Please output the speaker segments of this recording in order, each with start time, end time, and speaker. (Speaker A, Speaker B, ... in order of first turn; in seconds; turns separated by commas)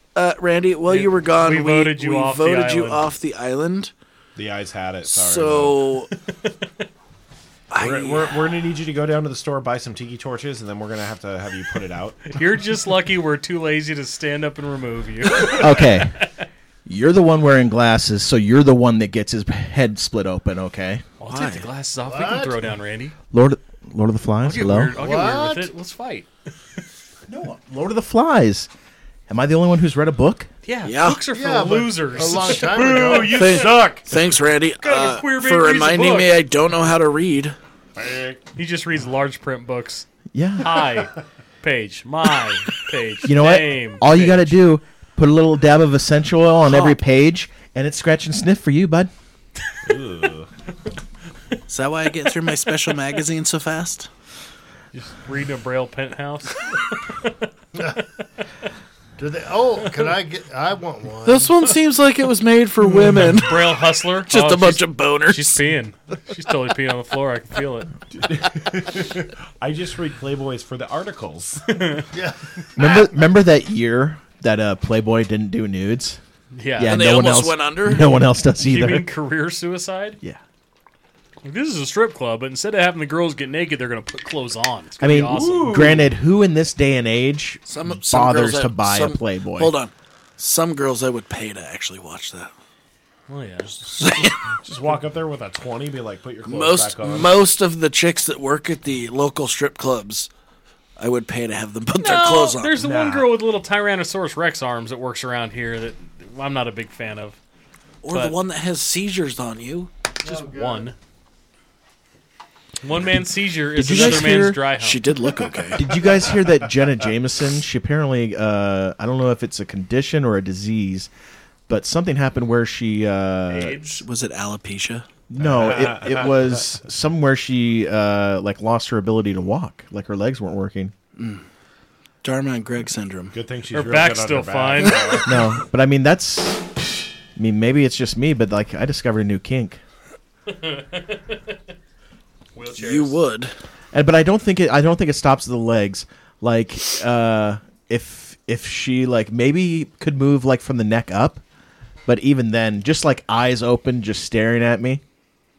Speaker A: 0.1-3.9, Speaker B: 0.9-3.1, Speaker C: 4.4-5.8, Speaker A: 5.0-6.1, Speaker B: 6.3-6.7, Speaker A: 7.7-8.3, Speaker C: 7.8-12.4, Speaker B: 12.3-16.0, Speaker D: 15.5-16.2, Speaker D: 16.9-21.0, Speaker B: 21.2-23.1, Speaker A: 21.3-21.6, Speaker E: 22.0-22.7, Speaker D: 23.3-25.0, Speaker B: 24.4-26.3, Speaker E: 24.9-25.7, Speaker D: 27.3-28.7, Speaker D: 29.3-30.5, Speaker B: 30.6-33.7, Speaker A: 30.9-31.2, Speaker E: 31.3-33.5, Speaker C: 32.7-34.1, Speaker A: 33.3-37.6, Speaker B: 34.8-36.4, Speaker C: 38.0-38.4, Speaker B: 38.6-40.1, Speaker D: 40.3-40.9, Speaker B: 40.6-44.5, Speaker D: 43.2-49.1, Speaker A: 46.7-47.0, Speaker C: 49.8-50.5, Speaker A: 51.7-54.1, Speaker B: 54.9-57.4, Speaker E: 59.2-61.6, Speaker A: 61.2-63.7, Speaker B: 63.2-67.9, Speaker A: 64.2-65.6, Speaker C: 68.1-72.0, Speaker B: 71.7-72.1, Speaker E: 72.1-72.9, Speaker D: 72.8-76.2, Speaker B: 76.5-77.0, Speaker D: 76.8-79.1, Speaker A: 76.9-78.1, Speaker B: 78.6-80.2, Speaker B: 81.4-85.8, Speaker D: 85.0-89.7, Speaker C: 85.2-86.1, Speaker A: 87.7-92.5, Speaker B: 93.3-94.2, Speaker A: 93.9-94.4, Speaker C: 94.6-97.4, Speaker A: 96.4-100.3, Speaker A: 101.0-102.7, Speaker B: 102.0-107.4, Speaker C: 102.8-103.4, Speaker A: 108.0-109.9, Speaker B: 108.1-108.4, Speaker E: 110.2-110.9, Speaker B: 110.2-111.0, Speaker B: 112.8-115.1, Speaker D: 113.8-114.6, Speaker A: 113.8-115.9, Speaker D: 115.7-121.1, Speaker D: 121.7-123.9, Speaker B: 123.5-124.0, Speaker A: 123.9-125.1, Speaker D: 125.3-130.9, Speaker C: 125.4-126.5, Speaker A: 131.2-131.4, Speaker A: 132.2-133.3, Speaker C: 133.3-135.3, Speaker B: 133.7-135.2, Speaker D: 135.2-136.6, Speaker D: 137.4-139.8, Speaker B: 140.5-141.4, Speaker B: 142.6-143.2, Speaker A: 142.8-143.5, Speaker D: 143.9-151.4, Speaker D: 152.1-155.0